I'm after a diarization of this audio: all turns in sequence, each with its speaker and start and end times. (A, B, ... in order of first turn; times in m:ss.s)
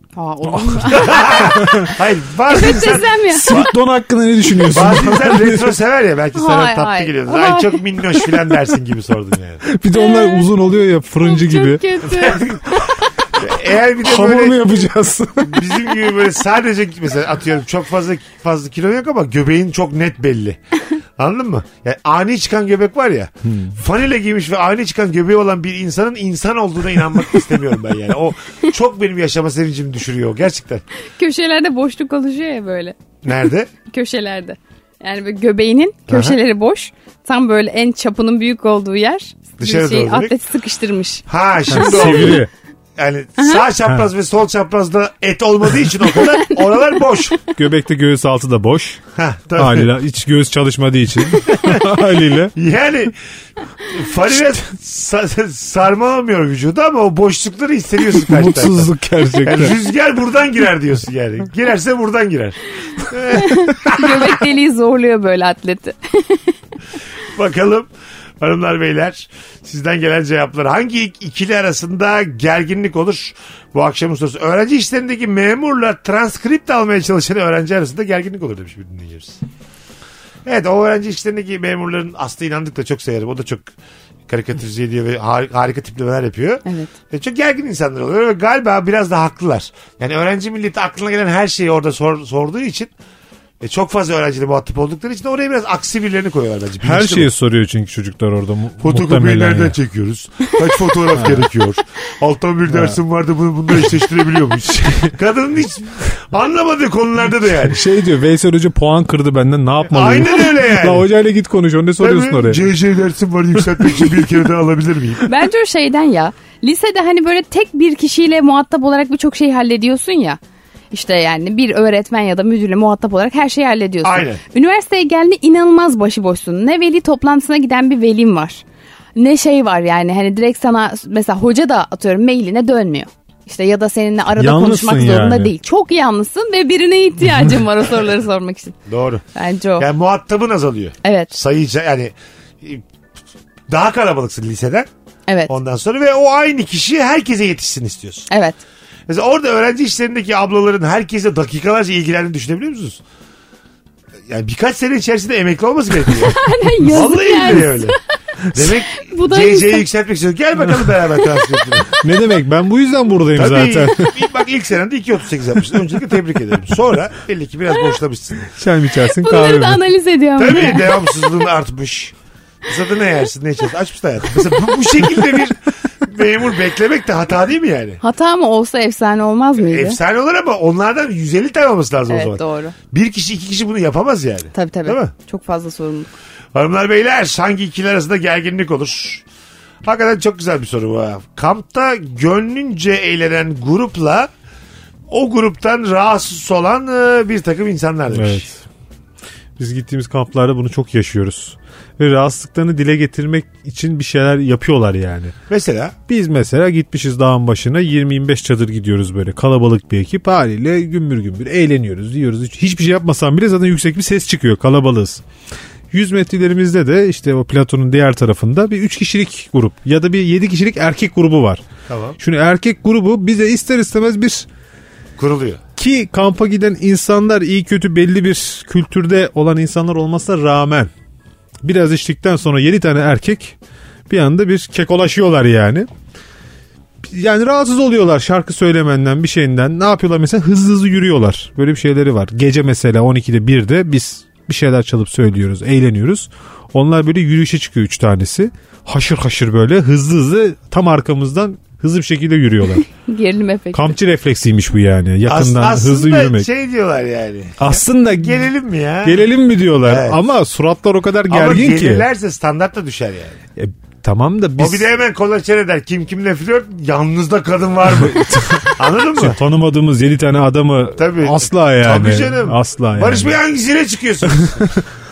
0:00.2-0:01.7 A
0:00.6-0:01.0 B
0:00.8-0:03.7 C
0:01.6-0:01.9 B
0:02.5-0:03.6 A
0:03.3-0:05.8 B
0:04.7-0:09.6 C
0:06.4-0:08.3 A
0:09.6-0:12.0 B
0:09.9-0:10.5 A
0:11.2-0:12.4 A
0:12.1-0:12.8 C
0:13.4-0:14.7 C
0:14.0-0:15.8 B
0:15.4-0:20.6 C
0:21.2-0:30.8 C
0:31.2-0:33.0 A
0:33.2-0:33.7 C
0:33.8-0:42.4 A
0:36.1-0:36.4 C
0:39.6-0:40.3 C
0:41.3-0:42.4 C
0:41.7-0:42.5 B
0:43.0-0:47.4 C
0:43.4-0:43.6 A
0:46.1-0:47.2 A
0:47.5-0:49.0 B
0:49.2-0:49.9 C
0:49.6-0:52.5 B
0:51.5-0:51.8 C
0:52.5-0:53.1 C
0:53.9-0:58.9 C
0:58.2-0:59.8 B
0:59.4-1:04.4 C
1:03.3-1:06.5 A
1:07.4-1:19.4 C
1:20.4-1:23.7 C
1:24.3-1:32.9 C
1:26.6-1:26.9 A
1:33.6-1:37.3 C
1:36.8-1:39.8 B
1:38.8-1:47.8 C
1:41.1-1:41.5 B
1:42.7-1:43.0 B
1:44.7-1:45.1 B
1:47.7-1:52.7 B
1:49.9-1:51.1 C
1:52.0-1:55.3 C
1:55.3-2:00.4 A
2:00.9-2:08.6 A
2:04.0-2:04.4 C
2:09.2-2:18.8 A
2:14.4-2:15.5 B
2:18.9-2:19.2 C
2:19.4-2:19.9 A
2:19.8-2:22.8 C
2:21.0-2:21.3 A
2:23.7-2:24.9 C
2:25.3-2:25.5 A
2:25.5-2:28.3 C
2:28.3-2:28.6 A
2:29.1-2:33.0 C
2:34.3-2:38.0 C
2:36.2-2:38.0 A
2:38.5-2:41.9 C
2:38.9-2:39.8 A
2:42.0-2:44.2 B
2:43.3-2:48.5 C
2:48.6-2:49.8 B
2:49.2-2:50.9 A
2:50.4-2:52.1 C
2:52.7-2:58.0 C
2:58.0-3:00.0 A
2:59.6-3:05.1 C
3:02.1-3:02.8 A
3:04.5-3:06.1 A
3:06.5-3:09.2 C
3:09.8-3:14.3 C
3:15.1-3:18.4 C
3:18.1-3:18.6 B
3:19.6-3:25.4 B
3:25.5-3:26.0 C
3:26.1-3:35.2 B
3:35.9-3:41.6 B
3:41.9-3:42.2 C
3:42.2-3:44.5 B
3:45.2-3:45.6 C
3:45.8-3:50.9 B
3:51.6-3:53.6 B
3:54.1-3:55.9 B
3:57.1-4:12.8 B
4:13.0-4:14.0 A
4:13.7-4:16.5 B
4:15.3-4:19.3 C
4:17.6-4:18.5 B
4:19.0-4:22.1 B
4:19.8-4:20.2 C
4:21.3-4:23.4 C
4:23.6-4:24.9 B
4:24.6-4:29.4 C
4:28.0-4:33.4 B
4:31.0-4:34.8 C
4:34.3-4:34.8 B